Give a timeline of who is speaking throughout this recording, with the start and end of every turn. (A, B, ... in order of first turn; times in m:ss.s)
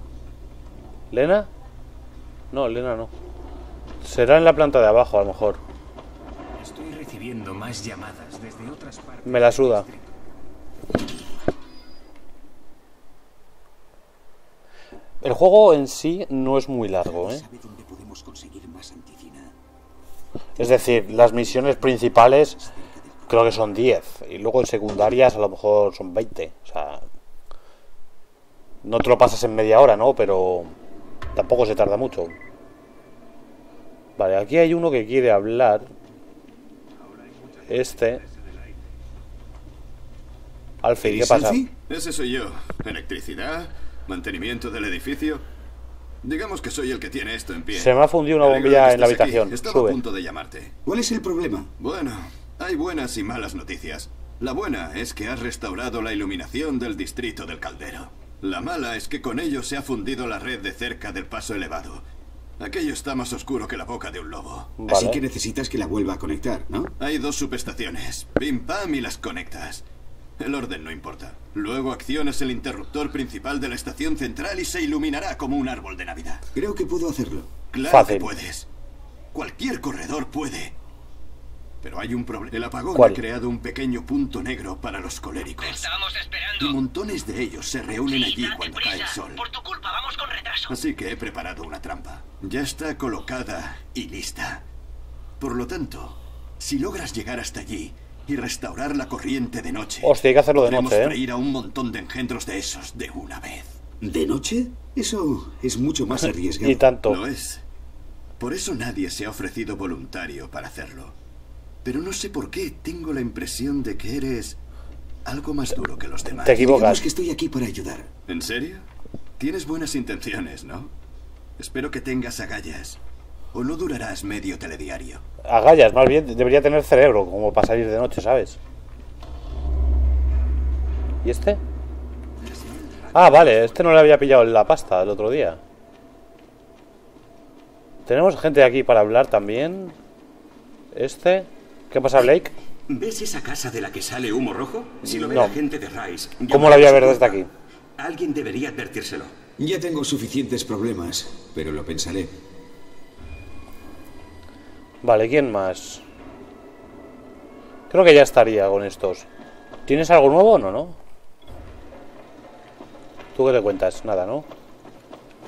0:01.1-0:01.5 A
0:02.5-0:03.1 A
0:04.0-0:05.6 A
0:06.6-0:10.0 B
0:06.7-0:09.2 C
0:09.2-0:09.9 A
0:15.2-0:17.4 A
0:17.0-0:19.6 B
0:20.6-0:22.6 A
0:22.6-0:23.7 B
0:23.3-0:27.0 A
0:28.8-0:30.7 A
0:31.4-0:32.4 A
0:34.2-0:35.9 A
0:37.4-0:37.7 D
0:37.7-0:38.2 A
0:40.8-0:41.6 A
0:41.1-0:45.5 D
0:41.2-0:41.7 B
0:46.2-0:50.8 D
0:47.7-0:50.0 A
0:50.9-0:51.7 B
0:51.8-1:02.0 D
1:02.6-1:04.7 D
1:04.8-1:05.2 A
1:04.9-1:06.9 B
1:07.0-1:09.8 D
1:10.4-1:16.4 D
1:16.6-1:17.5 B
1:17.7-1:18.7 D
1:17.8-1:18.3 A
1:19.3-1:20.8 D
1:21.8-1:25.9 D
1:22.9-1:23.2 A
1:25.6-1:26.8 E
1:26.6-1:29.4 D
1:28.0-1:30.8 E
1:30.7-1:34.7 D
1:35.4-1:43.8 D
1:40.0-1:41.2 A
1:44.0-1:46.9 B
1:46.6-1:47.2 A
1:47.0-1:47.6 D
1:48.4-1:51.2 D
1:51.8-1:54.6 D
1:55.2-1:56.6 D
1:56.4-1:57.0 A
1:56.5-1:58.1 B
1:58.3-1:58.9 D
1:59.4-2:00.9 D
2:01.6-2:03.0 D
2:03.5-2:05.2 D
2:05.4-2:08.6 A
2:11.2-2:11.6 A
2:13.1-2:15.6 A
2:13.3-2:13.6 D
2:18.1-2:20.0 A
2:20.9-2:22.6 A
2:23.0-2:26.2 C
2:23.5-2:24.1 D
2:24.6-2:26.6 D
2:25.1-2:25.6 B
2:25.3-2:25.6 A
2:26.5-2:27.5 A
2:26.5-2:27.4 B
2:28.0-2:29.3 D
2:28.1-2:29.0 C
2:29.6-2:32.4 B
2:35.0-2:36.0 A
2:37.9-2:39.3 A
2:39.9-2:41.0 A
2:43.4-2:44.5 A